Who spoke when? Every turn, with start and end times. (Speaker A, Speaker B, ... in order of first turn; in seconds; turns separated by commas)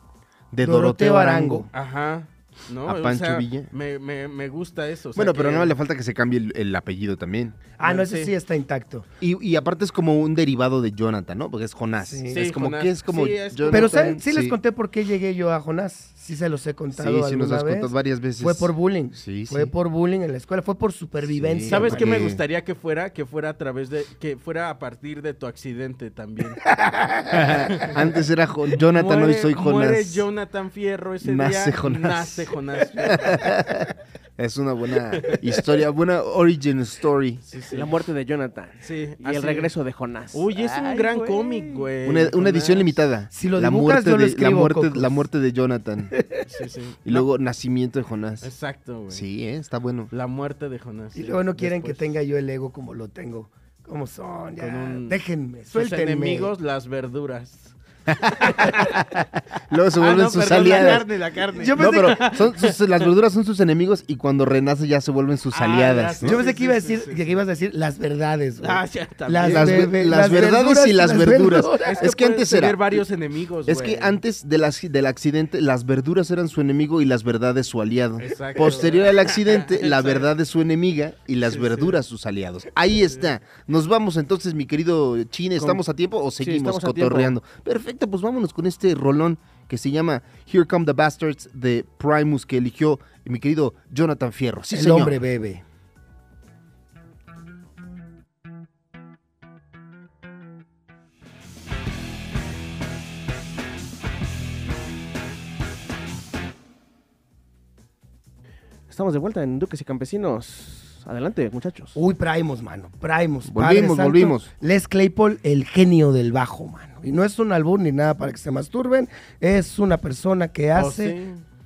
Speaker A: 0.5-1.7, Speaker B: 0.6-1.7, Speaker C: 1.7-5.7, Speaker A: 2.8-3.7, Speaker A: 5.1-7.6, Speaker B: 7.8-9.1, Speaker C: 7.8-8.3, Speaker A: 9.2-14.6, Speaker B: 12.0-12.4, Speaker C: 12.3-14.1, Speaker B: 13.7-22.1, Speaker A: 16.9-19.7, Speaker A: 21.2-22.4, Speaker C: 21.7-26.6, Speaker B: 26.7-27.5, Speaker A: 27.3-30.2, Speaker C: 27.6-28.0, Speaker C: 28.7-33.6, Speaker A: 31.2-37.4, Speaker C: 35.1-35.5, Speaker C: 37.5-37.9, Speaker D: 37.7-41.9, Speaker C: 38.8-39.7, Speaker C: 40.3-43.0, Speaker A: 42.0-46.1, Speaker B: 43.3-45.2, Speaker B: 46.1-46.4, Speaker C: 46.5-47.2, Speaker A: 47.0-48.5, Speaker C: 48.4-49.2, Speaker A: 49.1-50.1, Speaker C: 50.1-52.0, Speaker B: 51.1-56.5, Speaker C: 54.6-55.2, Speaker C: 55.7-57.7, Speaker A: 58.1-61.1, Speaker C: 58.3-59.0, Speaker C: 60.0-63.1, Speaker B: 60.6-61.0, Speaker B: 61.5-62.2, Speaker A: 61.7-66.4, Speaker C: 65.5-67.4, Speaker B: 66.2-72.0, Speaker C: 68.6-69.9, Speaker A: 69.4-73.0, Speaker C: 71.8-74.2, Speaker A: 73.7-95.2, Speaker C: 78.2-80.3, Speaker C: 81.4-82.0, Speaker D: 85.6-85.8, Speaker D: 86.4-87.3, Speaker B: 94.7-95.6, Speaker D: 108.9-112.0, Speaker B: 111.9-121.2, Speaker A: 113.4-114.5, Speaker C: 120.7-121.4